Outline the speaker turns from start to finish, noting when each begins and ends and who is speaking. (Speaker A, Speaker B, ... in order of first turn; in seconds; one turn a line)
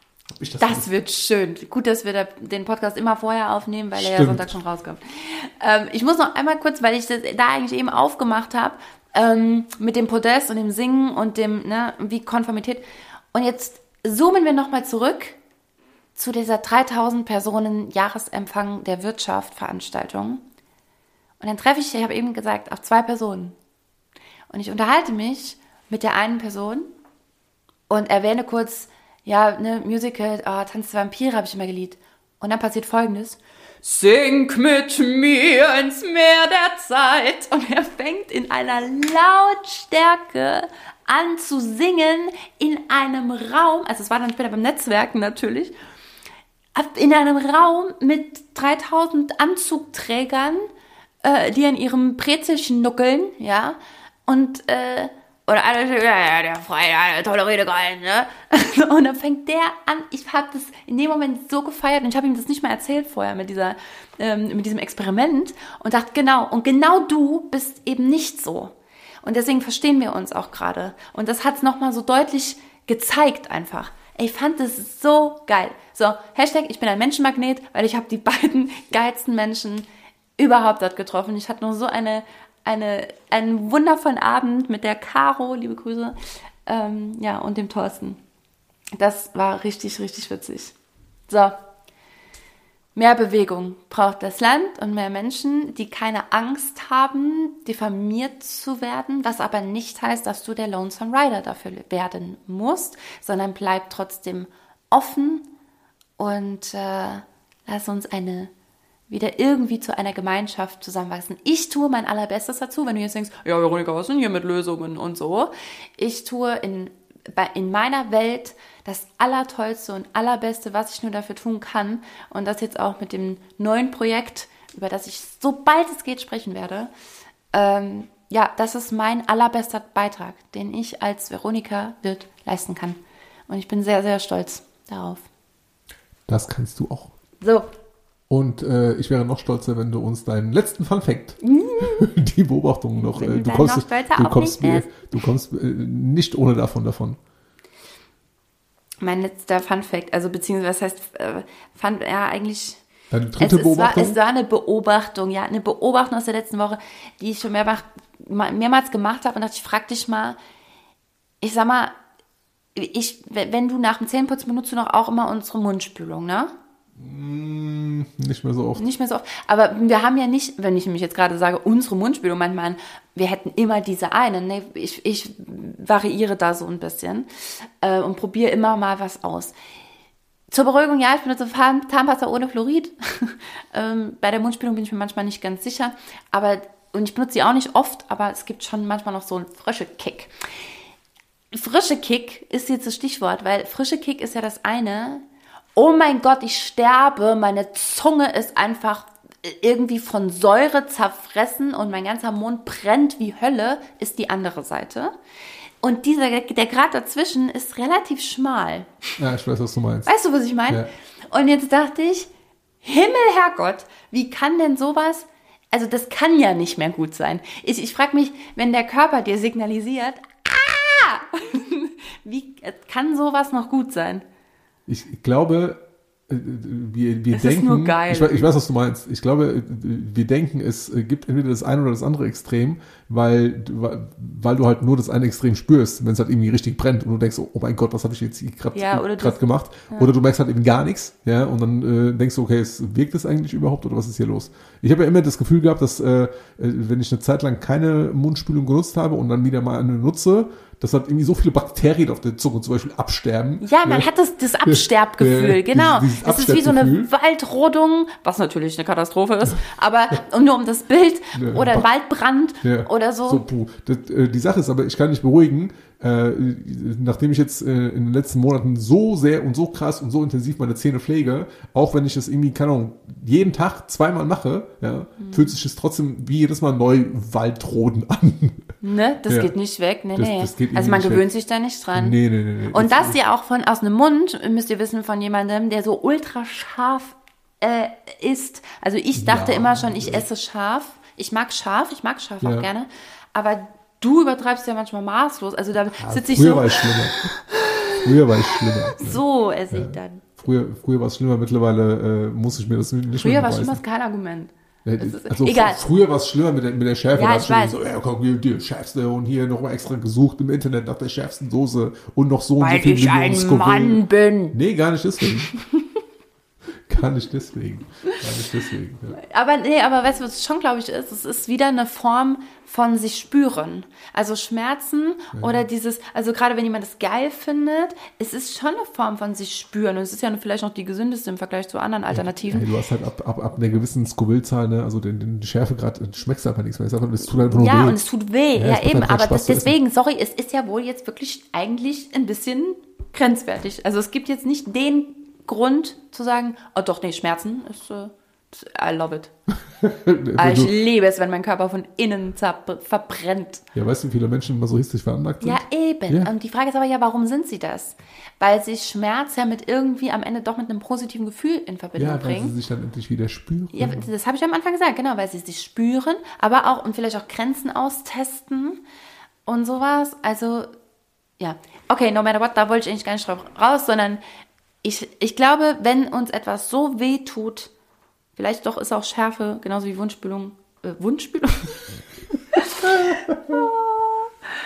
Speaker A: 0.3-0.9
Speaker B: 0.6-12.8
Speaker A: 4.0-4.5
Speaker B: 13.3-15.4
Speaker B: 16.2-20.4
Speaker B: 21.4-23.6
Speaker B: 24.5-26.9
Speaker B: 27.9-45.7
Speaker B: 46.8-50.7
Speaker B: 51.2-79.9
Speaker B: 80.4-86.2
Speaker B: 86.7-88.2
Speaker B: 89.0-90.7
Speaker B: 91.3-91.6
Speaker B: 93.0-105.5
Speaker B: 106.2-108.5
Speaker B: 109.1-126.9
Speaker B: 127.5-135.3
Speaker A: 136.3-137.1
Speaker B: 137.4-137.7
Speaker A: 138.3-147.2
Speaker B: 141.4-142.1
Speaker B: 143.0-145.2
Speaker B: 149.0-152.8
Speaker A: 153.1-154.2
Speaker B: 153.4-160.4
Speaker B: 161.4-161.9
Speaker B: 162.8-166.5
Speaker A: 167.0-168.8
Speaker B: 168.8-179.6
Speaker B: 180.5-190.3
Speaker B: 191.5-195.2
Speaker B: 195.8-205.1
Speaker B: 205.8-208.9
Speaker A: 209.2-210.1
Speaker B: 210.1-212.3
Speaker B: 212.8-224.2
Speaker A: 224.9-254.1
Speaker B: 227.3-228.5
Speaker B: 238.7-240.1
Speaker B: 253.6-263.4
Speaker A: 254.7-257.1
Speaker A: 261.3-261.9
Speaker A: 262.6-278.7
Speaker B: 275.2-275.5
Speaker B: 278.8-282.2
Speaker A: 279.3-279.5
Speaker A: 280.1-281.2
Speaker A: 281.9-283.2
Speaker B: 282.7-300.3
Speaker A: 289.1-290.2
Speaker A: 292.4-292.7
Speaker A: 296.0-297.3
Speaker A: 298.0-303.8
Speaker B: 303.1-305.8
Speaker A: 304.9-314.0
Speaker B: 307.1-307.8
Speaker B: 312.6-314.6
Speaker A: 314.5-315.5
Speaker B: 315.2-315.8
Speaker A: 316.9-319.2
Speaker B: 319.2-332.7
Speaker A: 325.3-325.6
Speaker A: 332.1-338.0
Speaker B: 337.4-349.3
Speaker A: 338.6-339.7
Speaker A: 349.7-350.7
Speaker B: 350.4-353.6
Speaker A: 353.7-356.3
Speaker B: 355.4-362.6
Speaker A: 361.9-364.1
Speaker B: 363.7-368.8
Speaker B: 369.4-370.7
Speaker B: 371.4-374.2
Speaker B: 374.8-377.7
Speaker B: 378.4-381.8
Speaker B: 382.5-384.3
Speaker A: 382.8-383.6